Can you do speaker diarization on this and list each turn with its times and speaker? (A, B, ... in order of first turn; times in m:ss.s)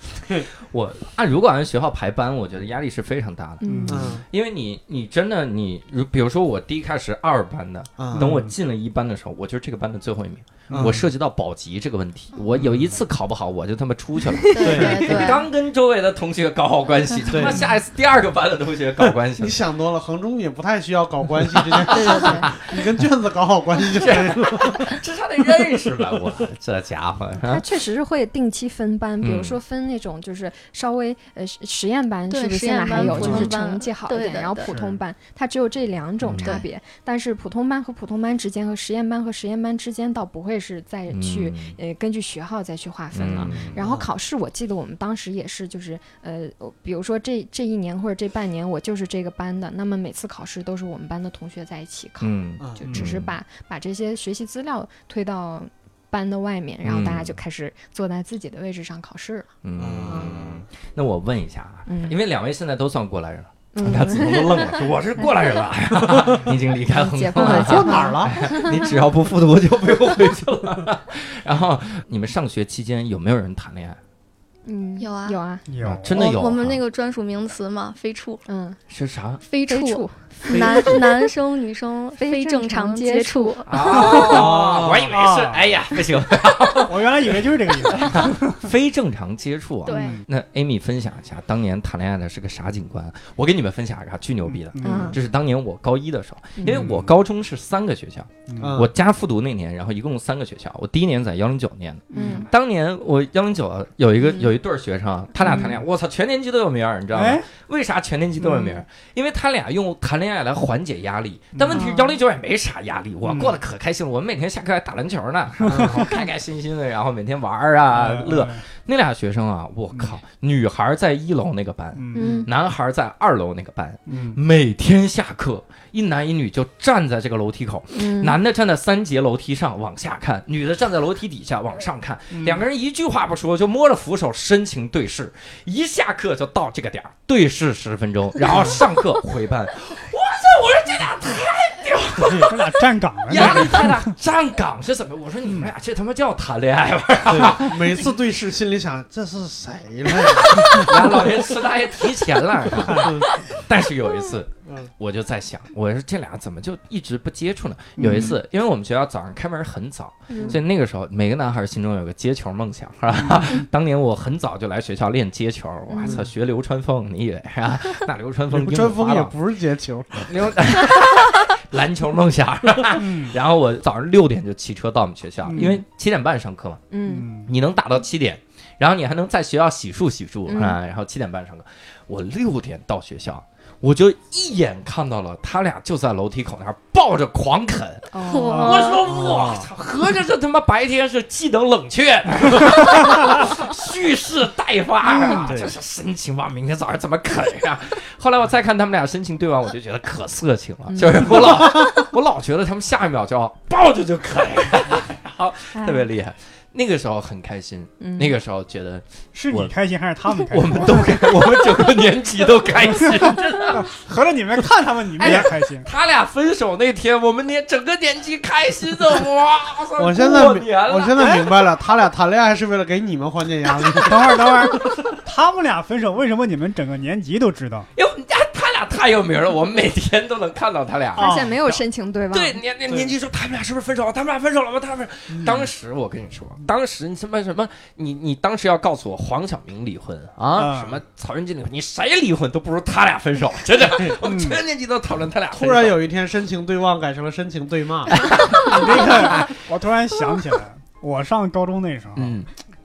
0:00.7-0:19.6 A
0:03.6-0:04.1 B
0:03.6-0:04.2 C
0:03.9-0:04.2 D
0:08.0-0:08.4 D
0:08.1-0:08.5 C
0:10.7-0:11.1 D
0:12.6-0:12.9 D
0:14.5-0:15.4 E
0:14.6-0:15.3 D
0:17.3-0:17.7 D
0:19.0-0:24.9 D
0:21.4-0:22.9 A
0:21.9-0:22.5 B
0:24.0-0:27.6 A
0:27.4-0:59.5 B
0:29.2-0:29.6 A
0:32.3-0:34.7 E
0:33.0-0:33.5 A
0:34.7-0:35.0 C
0:36.2-0:36.6 A
0:36.4-0:36.6 E
0:41.1-0:41.8 A
0:43.1-0:43.8 A
0:43.7-0:44.1 D
0:52.2-0:53.3 A
0:52.6-0:52.9 D
0:56.8-0:57.3 A
0:59.6-1:14.0 A
0:59.8-1:00.6 D
1:01.9-1:02.2 B
1:03.7-1:05.4 B
1:06.1-1:06.4 D
1:06.9-1:08.9 B
1:07.4-1:08.4 D
1:14.6-1:15.7 B
1:15.0-1:15.4 E
1:15.7-1:16.2 C
1:15.8-1:16.8 A
1:16.1-1:18.5 E
1:18.5-1:18.8 B
1:18.9-1:19.4 A
1:19.5-1:23.8 E
1:19.6-1:21.3 B
1:20.6-1:20.8 D
1:22.2-1:24.2 B
1:23.7-2:28.2 A
1:23.8-1:25.6 C
1:24.1-1:25.1 D
1:26.8-1:28.7 C
1:29.8-1:30.2 E
1:29.9-1:30.2 C
1:34.5-1:35.2 C
1:34.8-1:35.2 B
1:36.6-1:36.9 B
1:36.6-1:37.2 C
1:38.5-1:38.8 C
1:38.6-1:38.9 D
1:42.1-1:42.5 B
1:42.1-1:42.4 C
1:45.4-1:45.8 B
1:47.1-1:47.5 C
1:51.5-1:52.0 C
1:51.7-1:52.1 B
1:53.2-1:53.6 C
1:55.6-1:56.1 C
1:55.7-1:56.0 D
1:57.9-1:58.6 C
1:59.9-2:00.2 C
2:01.9-2:02.5 C
2:02.1-2:02.5 B
2:04.1-2:04.4 C
2:07.9-2:08.4 B
2:12.3-2:12.6 C
2:22.3-2:24.1 C
2:25.4-2:25.7 C
2:27.3-2:31.3 D
2:30.0-2:49.3 A
2:32.8-2:33.2 C
2:32.9-2:33.2 D
2:38.0-2:38.4 D
2:40.3-2:40.6 B
2:43.2-2:43.6 C
2:45.9-2:46.2 B
2:48.5-2:51.0 D
2:50.2-2:56.9 A
2:53.0-2:53.4 C
2:55.4-2:55.8 C
2:55.5-2:55.8 B
2:56.9-2:57.3 B
2:57.1-2:57.5 C
2:57.4-3:29.7 A
3:00.5-3:00.8 B
3:08.1-3:08.8 B
3:08.3-3:09.0 E
3:08.5-3:08.8 C
3:09.0-3:09.7 D
3:15.1-3:15.4 B
3:15.4-3:15.7 D
3:20.9-3:21.4 B
3:28.0-3:28.3 B
3:29.3-3:31.2 C
3:30.5-3:33.9 A
3:33.2-3:35.9 C
3:35.2-3:41.6 A
3:40.0-3:45.2 D
3:44.0-3:47.9 C
3:47.9-3:51.4 A
3:51.2-3:52.6 B
3:51.2-3:51.8 C
3:52.3-4:06.0 A
3:55.4-3:55.6 C
4:00.6-4:01.0 C
4:04.2-4:04.6 C
4:05.5-4:08.2 D
4:08.2-4:09.5 A
4:08.6-4:12.4 C
4:12.2-4:12.5 A